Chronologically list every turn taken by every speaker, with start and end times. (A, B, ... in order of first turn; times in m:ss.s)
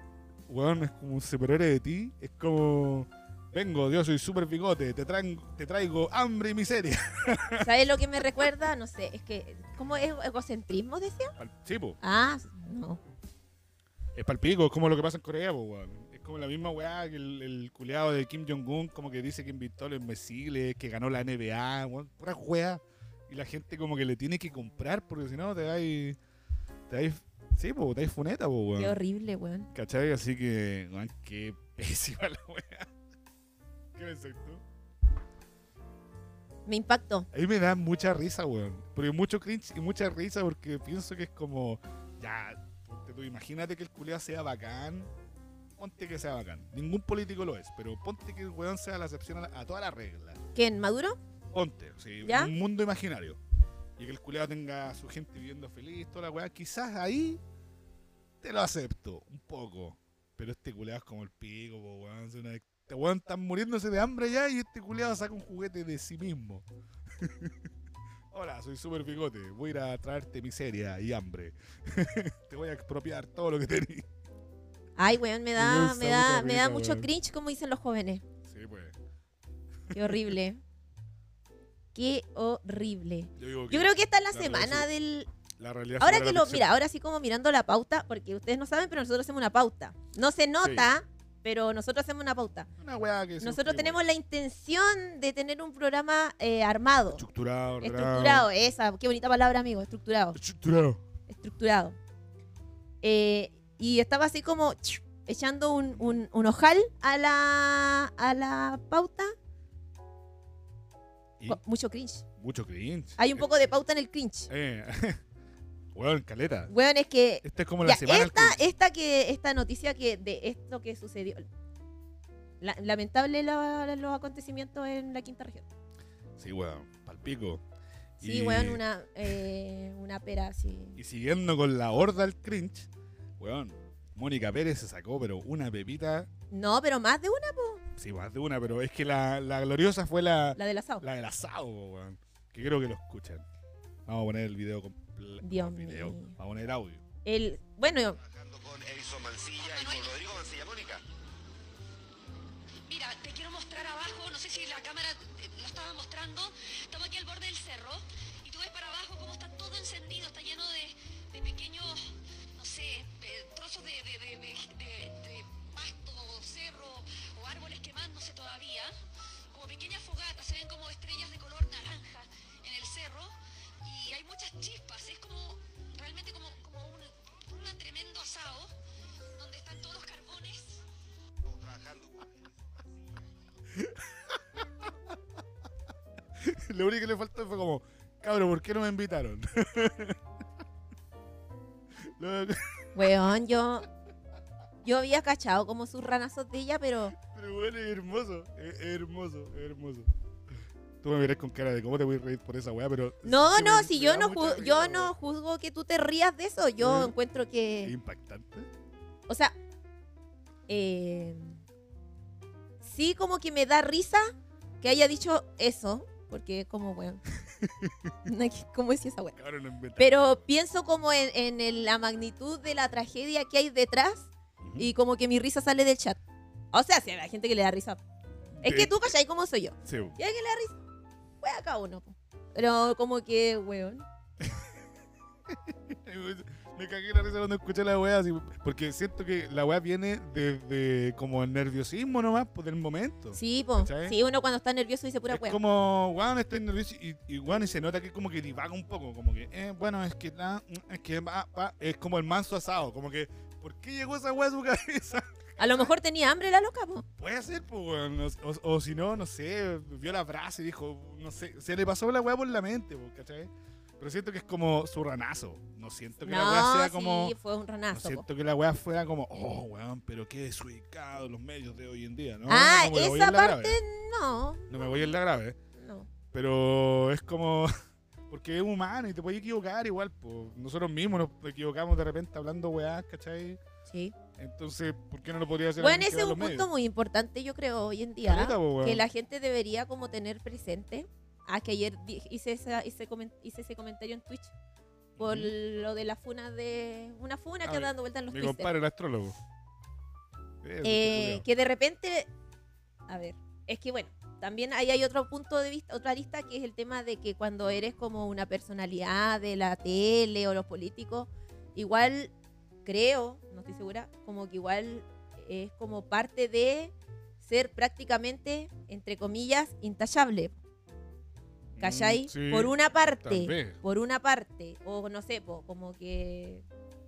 0:00.5-0:08.2 A
0:07.6-0:11.3 B
0:11.4-0:12.0 A
0:12.0-0:13.0 B
0:14.1-0:26.2 A
0:26.9-0:29.0 A
0:28.8-0:29.7 B
0:29.7-0:32.9 A
0:33.9-0:34.6 A
0:36.6-0:37.3 B
0:37.3-0:45.1 A
0:45.8-0:50.4 A
0:50.5-0:51.2 B
0:51.5-0:53.4 A
0:52.2-0:52.5 B
0:54.0-0:57.4 A
0:58.4-1:06.6 A
1:07.2-1:07.6 A
1:08.3-1:14.1 A
1:15.0-1:18.2 B
1:15.6-1:17.1 A
1:18.4-1:18.9 A
1:19.9-1:20.3 A
1:19.9-1:20.6 B
1:21.9-1:25.3 B
1:23.4-1:24.9 A
1:25.6-1:26.7 A
1:26.0-1:32.7 B
1:30.6-1:30.9 A
1:32.8-1:34.0 A
1:33.4-1:37.2 B
1:37.1-1:38.5 A
1:37.8-1:40.4 B
1:40.3-1:41.0 A
1:41.3-1:42.0 B
1:43.0-1:49.3 B
1:45.9-1:46.2 A
1:51.4-1:52.2 B
1:52.4-1:53.4 A
1:53.2-1:54.5 B
1:54.5-1:55.2 A
1:55.9-1:56.7 A
1:56.7-2:01.4 B
1:57.4-1:58.6 A
2:02.6-2:05.7 B
2:06.4-2:07.6 A
2:08.2-2:11.0 B
2:08.2-2:08.8 A
2:11.0-2:16.3 A
2:16.5-2:17.8 B
2:18.0-2:23.4 A
2:20.6-2:21.0 B
2:24.0-2:27.0 A
2:25.4-2:26.3 B
2:27.2-2:28.2 B
2:28.2-2:31.0 C
2:29.6-2:30.2 D
2:32.8-2:48.9 D
2:49.5-2:58.7 D
2:59.3-3:00.8 D
3:01.4-3:02.3 C
3:03.7-3:04.6 A
3:06.4-3:10.2 A
3:12.0-3:13.1 A
3:12.9-3:13.8 B
3:14.8-3:17.1 B
3:17.1-3:20.1 A
3:21.0-3:25.1 A
3:23.2-3:27.9 B
3:26.8-3:27.1 A
3:27.8-3:28.7 A
3:29.3-3:29.5 B
3:30.7-3:31.6 B
3:32.8-3:37.2 B
3:37.4-3:38.2 A
3:38.2-3:39.4 B
3:39.4-3:40.4 A
3:40.0-3:46.2 B
3:44.6-3:44.9 A
3:46.7-3:48.0 B
3:48.6-3:49.0 A
3:48.6-3:50.8 B
3:49.8-3:50.2 A
3:51.4-3:54.0 B
3:54.4-3:54.8 A
3:55.4-4:04.2 A
4:03.3-4:05.6 B
4:05.3-4:15.9 A
4:15.6-4:17.0 B
4:17.2-4:27.4 A
4:26.2-4:28.2 B
4:27.9-4:33.8 A
4:32.5-4:35.1 B
4:34.7-4:35.6 A
4:35.8-4:36.1 B
4:36.3-4:37.7 A
4:38.3-4:43.6 A
4:43.9-4:44.1 B
4:44.4-4:46.7 A
4:45.8-4:54.5 B
4:48.2-4:49.0 A
4:55.2-4:55.5 A
4:55.2-4:58.7 B
4:57.6-4:59.4 A
5:00.6-5:01.4 A
5:00.8-5:02.3 B
5:03.1-5:12.3 B
5:12.8-5:20.6 B
5:21.7-5:23.8 A
5:21.8-5:26.6 B